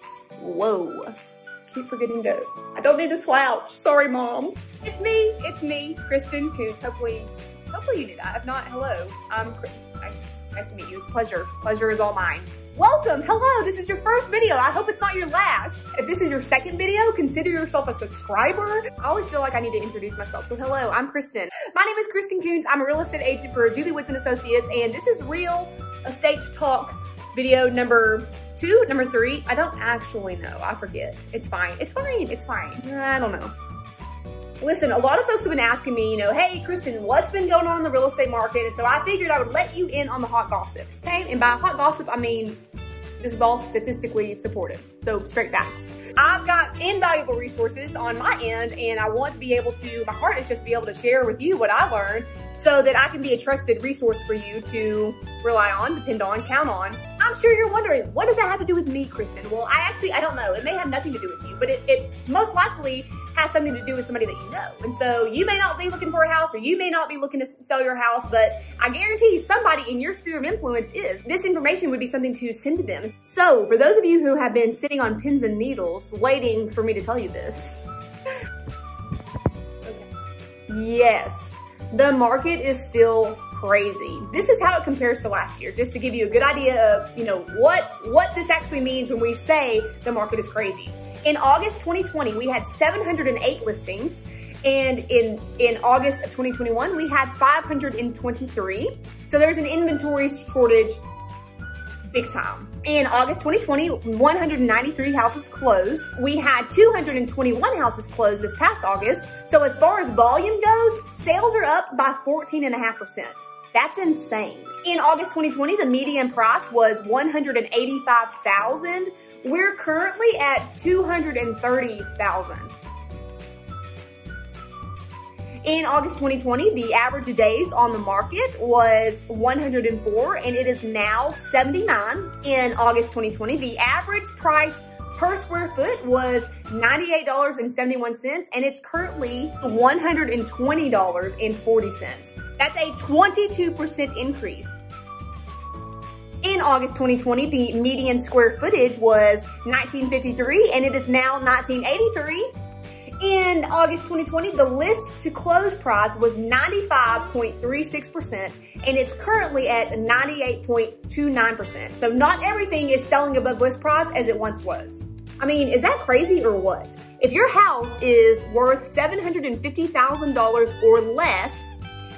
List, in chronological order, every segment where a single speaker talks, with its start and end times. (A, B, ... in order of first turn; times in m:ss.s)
0:00.4-0:01.2 A
0:01.7-0:33.5 A
0:34.6-0:42.6 A
0:43.2-1:17.9 A
1:20.7-1:41.0 A
1:42.1-2:02.8 A
2:05.6-2:24.8 A
2:26.4-2:32.5 A
2:33.2-2:51.8 A